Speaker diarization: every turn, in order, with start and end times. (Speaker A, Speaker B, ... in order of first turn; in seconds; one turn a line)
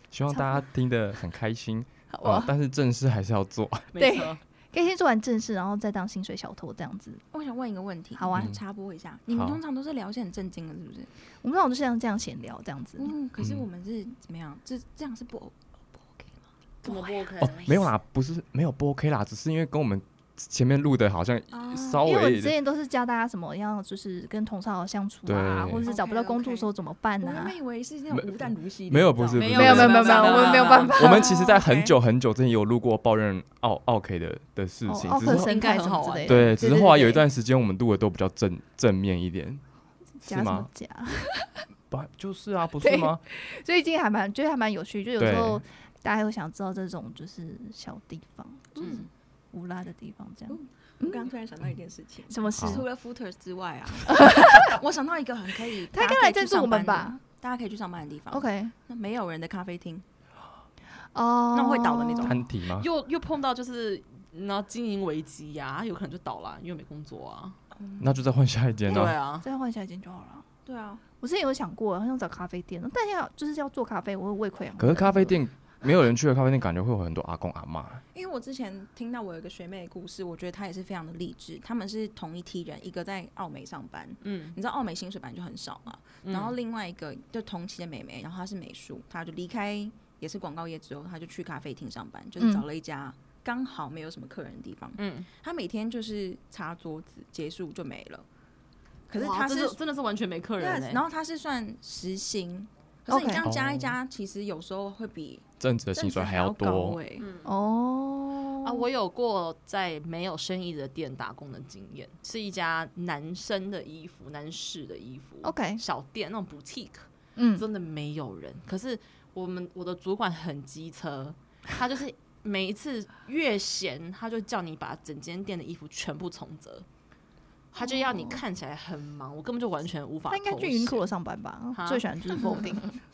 Speaker A: 0.1-3.9
Speaker B: 0.3-0.6
Speaker B: 2.1-2.5
Speaker C: 3.9-4.4
Speaker B: 4.0-7.2
Speaker D: 7.3-11.1
Speaker B: 8.2-8.5
Speaker A: 8.3-8.6
Speaker A: 9.3-9.6
Speaker B: 11.4-13.1
Speaker D: 13.0-16.4
Speaker B: 16.8-17.2
Speaker C: 16.8-17.8
Speaker A: 17.4-22.6
Speaker D: 21.5-22.1
Speaker B: 22.0-27.6
Speaker A: 25.2-25.9
Speaker D: 25.8-26.7
Speaker D: 27.2-31.9
Speaker A: 28.1-30.2
Speaker C: 29.4-31.0
Speaker B: 29.6-31.6
Speaker A: 30.9-35.6
Speaker B: 34.9-37.2
Speaker C: 35.2-36.6
Speaker A: 36.2-39.6
Speaker B: 40.2-41.6
Speaker A: 40.3-40.7
Speaker A: 41.9-43.2
Speaker B: 42.8-51.3
Speaker A: 45.2-45.6
Speaker D: 50.5-60.0
Speaker B: 52.3-52.9
Speaker A: 52.6-52.8
Speaker B: 54.1-54.8
Speaker B: 55.9-57.2
Speaker B: 58.3-58.7
Speaker B: 61.1-62.4
Speaker D: 61.5-62.4
Speaker A: 62.2-62.9
Speaker C: 62.7-67.6
Speaker D: 67.8-68.2
Speaker A: 68.0-69.2
Speaker C: 68.9-69.5
Speaker B: 69.0-70.5
Speaker D: 70.7-71.0
Speaker B: 71.2-75.4
Speaker A: 74.8-78.0
Speaker D: 78.1-98.2
Speaker C: 84.2-84.6
Speaker C: 86.2-86.6
Speaker B: 92.4-92.7
Speaker C: 95.0-95.3
Speaker D: 99.1-99.8
Speaker C: 99.2-101.0
Speaker D: 100.6-107.3
Speaker B: 103.1-103.5
Speaker A: 103.4-104.0
Speaker A: 105.6-107.0
Speaker C: 107.2-107.5
Speaker B: 107.4-108.8
Speaker C: 108.6-126.9
Speaker B: 115.4-115.8
Speaker B: 117.4-117.7
Speaker C: 127.7-131.1
Speaker B: 127.8-128.4
Speaker B: 130.3-133.0
Speaker C: 131.7-132.6